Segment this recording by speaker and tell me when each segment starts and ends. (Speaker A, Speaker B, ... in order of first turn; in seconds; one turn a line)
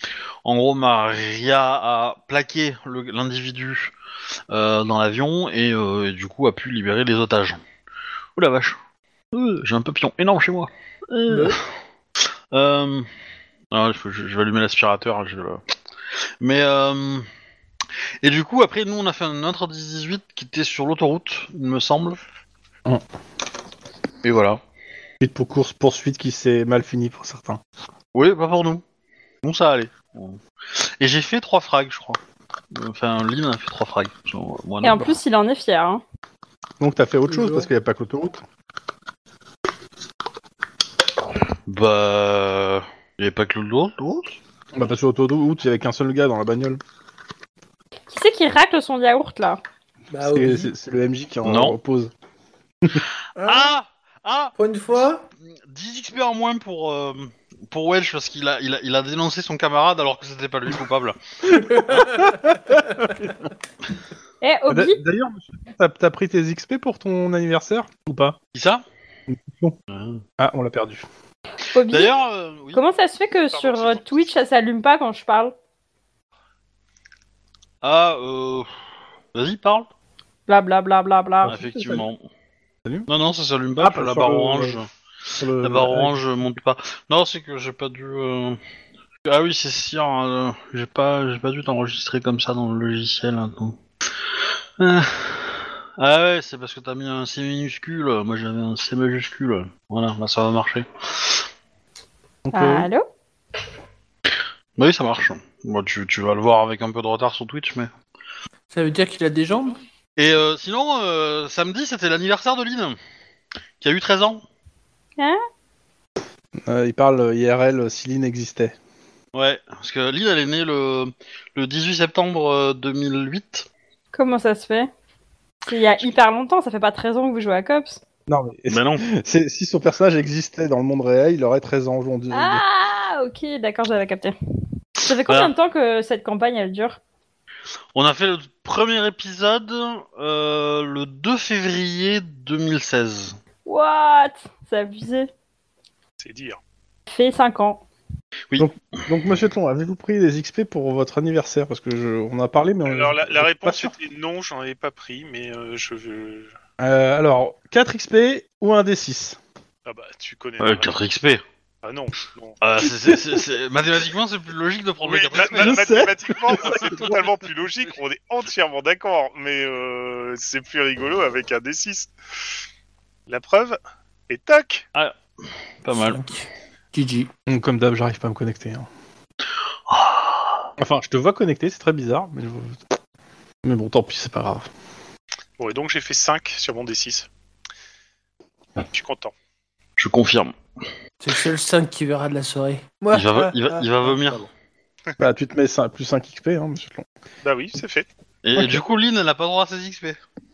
Speaker A: 0.4-3.9
Speaker A: 4.5-7.6
Speaker A: 8.4-8.8
Speaker A: 9.3-11.6
Speaker B: 11.3-11.6
Speaker A: 12.5-13.1
Speaker A: 13.7-15.6
Speaker A: 16.4-17.2
Speaker A: 18.2-22.2
Speaker A: 24.2-24.6
Speaker C: 25.2-27.6
Speaker A: 28.1-28.8
Speaker A: 29.4-30.4
Speaker A: 31.0-32.2
Speaker A: 32.7-35.0
Speaker D: 34.8-36.0
Speaker C: 36.8-38.4
Speaker B: 37.3-37.7
Speaker A: 41.7-44.4
Speaker C: 44.7-46.8
Speaker D: 48.1-49.6
Speaker B: 50.1-50.7
Speaker C: 50.2-52.1
Speaker A: 51.4-51.8
Speaker B: 53.4-53.7
Speaker A: 53.4-54.5
Speaker B: 54.5-55.2
Speaker A: 55.7-61.2
Speaker B: 61.6-63.1
Speaker C: 62.0-63.3
Speaker D: 64.4-65.0
Speaker C: 64.7-68.4
Speaker A: 68.5-68.8
Speaker C: 69.3-69.8
Speaker A: 69.9-70.2
Speaker C: 70.4-71.0
Speaker D: 71.7-72.1
Speaker A: 71.9-72.8
Speaker D: 72.7-75.5
Speaker E: 73.5-74.3
Speaker A: 77.8-78.7
Speaker A: 79.3-79.9
Speaker D: 80.5-81.6
Speaker C: 81.4-82.0
Speaker A: 81.4-82.2
Speaker A: 83.1-84.9
Speaker C: 83.8-84.8
Speaker C: 85.4-86.2
Speaker A: 85.6-88.6
Speaker A: 89.2-93.8
Speaker A: 94.8-101.4
Speaker C: 102.5-102.9
Speaker D: 102.5-103.1
Speaker A: 104.8-107.9
Speaker B: 108.7-109.8
Speaker A: 110.2-113.0
Speaker A: 113.8-114.4
Speaker C: 116.6-118.8
Speaker A: 119.3-123.7
Speaker D: 124.1-124.9
Speaker D: 125.6-128.0
Speaker C: 128.3-132.6
Speaker A: 128.7-129.0
Speaker D: 132.3-134.3
Speaker D: 135.1-137.0
Speaker A: 135.2-135.5
Speaker A: 137.9-143.4
Speaker D: 143.6-145.3
Speaker E: 146.2-146.6
Speaker D: 147.1-147.8
Speaker A: 148.5-149.1
Speaker C: 148.6-153.9
Speaker E: 152.9-156.5
Speaker C: 156.8-159.4
Speaker E: 159.8-160.9
Speaker A: 160.6-161.4
Speaker E: 161.8-162.6
Speaker A: 162.6-166.2
Speaker E: 165.0-172.1
Speaker C: 165.4-167.1
Speaker E: 173.3-173.8
Speaker E: 174.3-174.8
Speaker A: 175.8-176.2
Speaker B: 175.9-177.3
Speaker C: 177.5-178.9
Speaker A: 179.9-180.3
Speaker C: 180.8-182.8
Speaker C: 183.6-184.7
Speaker E: 185.6-187.3
Speaker E: 188.9-189.3
Speaker A: 190.0-190.6
Speaker B: 191.2-194.4
Speaker A: 193.1-194.5
Speaker C: 195.2-197.1
Speaker E: 197.4-198.1
Speaker A: 198.4-200.2
Speaker C: 198.6-198.8